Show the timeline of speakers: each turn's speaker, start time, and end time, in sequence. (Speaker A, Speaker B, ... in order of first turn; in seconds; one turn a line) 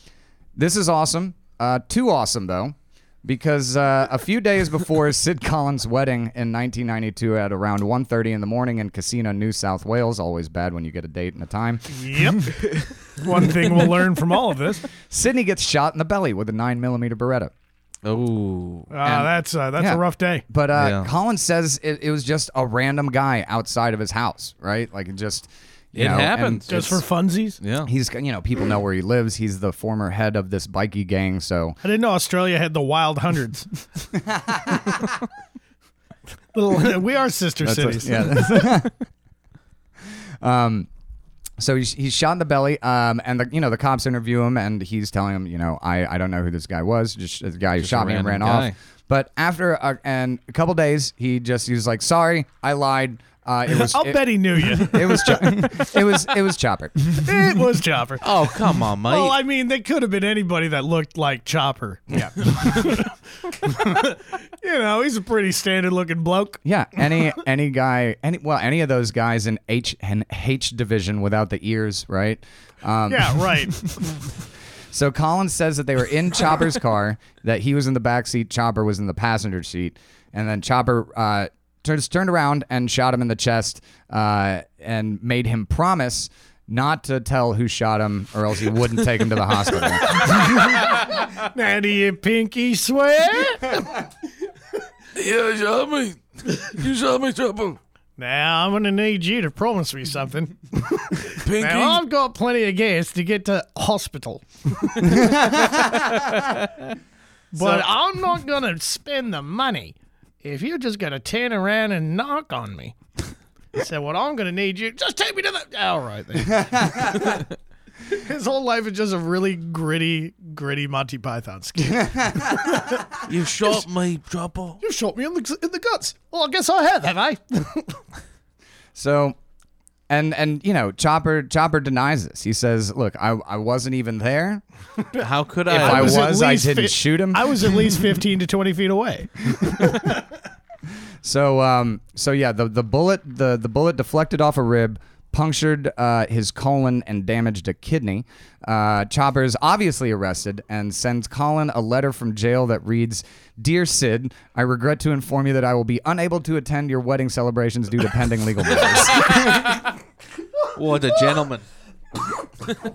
Speaker A: 0.6-12.1
Speaker B: 11.9-14.9
Speaker A: 15.1-17.5
Speaker C: 18.0-18.9
Speaker B: 18.9-20.4
Speaker A: 19.0-27.0
Speaker C: 20.8-21.1
Speaker C: 25.9-26.9
Speaker B: 26.7-27.6
Speaker C: 27.6-27.9
Speaker A: 27.8-31.8
Speaker B: 31.8-33.7
Speaker B: 36.5-38.7
Speaker A: 37.6-38.9
Speaker A: 40.4-40.9
Speaker A: 41.6-57.3
Speaker C: 47.8-48.7
Speaker B: 53.8-56.1
Speaker B: 57.1-58.5
Speaker C: 58.2-59.4
Speaker B: 59.1-66.6
Speaker A: 62.1-62.8
Speaker A: 66.7-73.5
Speaker B: 73.1-74.0
Speaker A: 74.9-90.3
Speaker B: 90.2-93.9
Speaker C: 95.2-97.8
Speaker B: 98.2-105.5
Speaker C: 101.4-102.0
Speaker B: 107.5-113.0
Speaker B: 113.7-117.5
Speaker B: 118.1-123.0
Speaker C: 123.3-124.8
Speaker B: 124.8-128.0
Speaker A: 128.9-129.4
Speaker A: 130.1-134.6
Speaker C: 135.2-136.3
Speaker B: 135.7-140.2
Speaker A: 135.7-137.7
Speaker A: 139.6-140.0
Speaker A: 141.2-159.7
Speaker C: 159.2-159.7
Speaker C: 160.7-161.7